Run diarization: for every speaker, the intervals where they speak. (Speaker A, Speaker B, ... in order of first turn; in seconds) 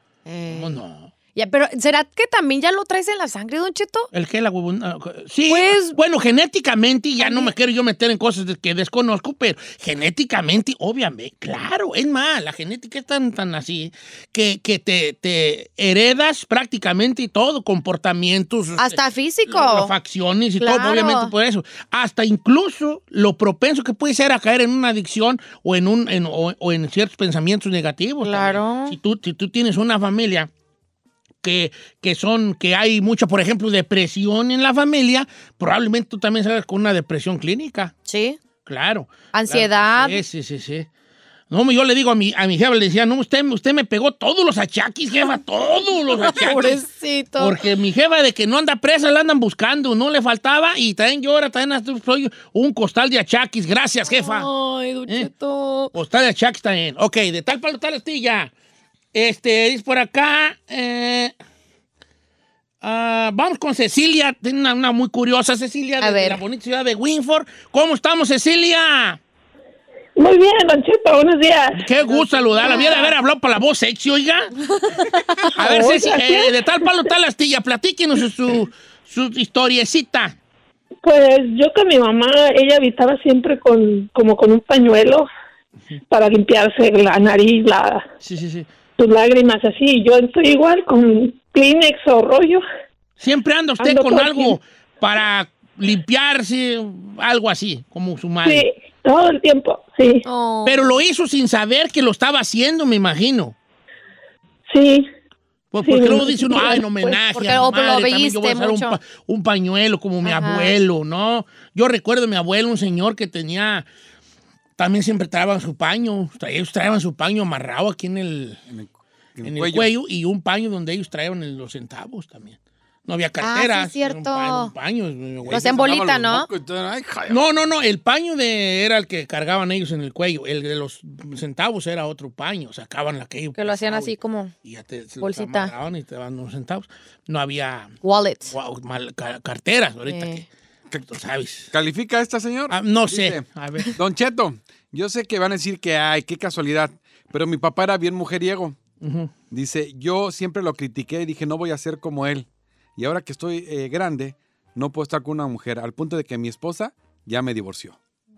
Speaker A: 0.2-0.8, 1.3-4.1, 5.5-6.0, 7.2-7.5, 18.8-19.9, 20.6-21.3, 28.2-29.0, 38.1-38.4, 39.3-40.2, 46.1-47.5, 54.1-55.9, 66.0-66.4, 72.6-73.1, 74.8-75.4, 100.2-101.0, 107.3-109.0, 110.2-110.7, 123.4-124.7, 125.5-126.5, 133.5-134.5, 135.2-135.7, 138.0-138.5, 140.1-140.4
Speaker B: 0.5-1.1, 4.1-30.5, 31.4-37.9, 38.6-40.9, 41.5-46.8, 47.4-54.5, 55.9-58.5, 59.1-61.3, 62.8-69.2, 71.7-74.5, 75.5-80.3, 88.2-88.7, 93.2-98.7, 100.6-103.5, 105.7-113.9, 114.8-118.6, 119.4-125.8, 127.3-137.9, 138.5-140.5, 141.1-141.7, 142.7-143.9, 149.0-149.3
Speaker C: 70.2-73.1, 75.5-76.8, 81.0-85.3, 86.1-88.0, 89.0-92.6, 93.8-94.6, 98.4-100.2, 104.7-105.1, 105.8-107.2
Speaker D: 118.7-119.9, 125.4-127.4, 141.7-148.8, 149.5-158.0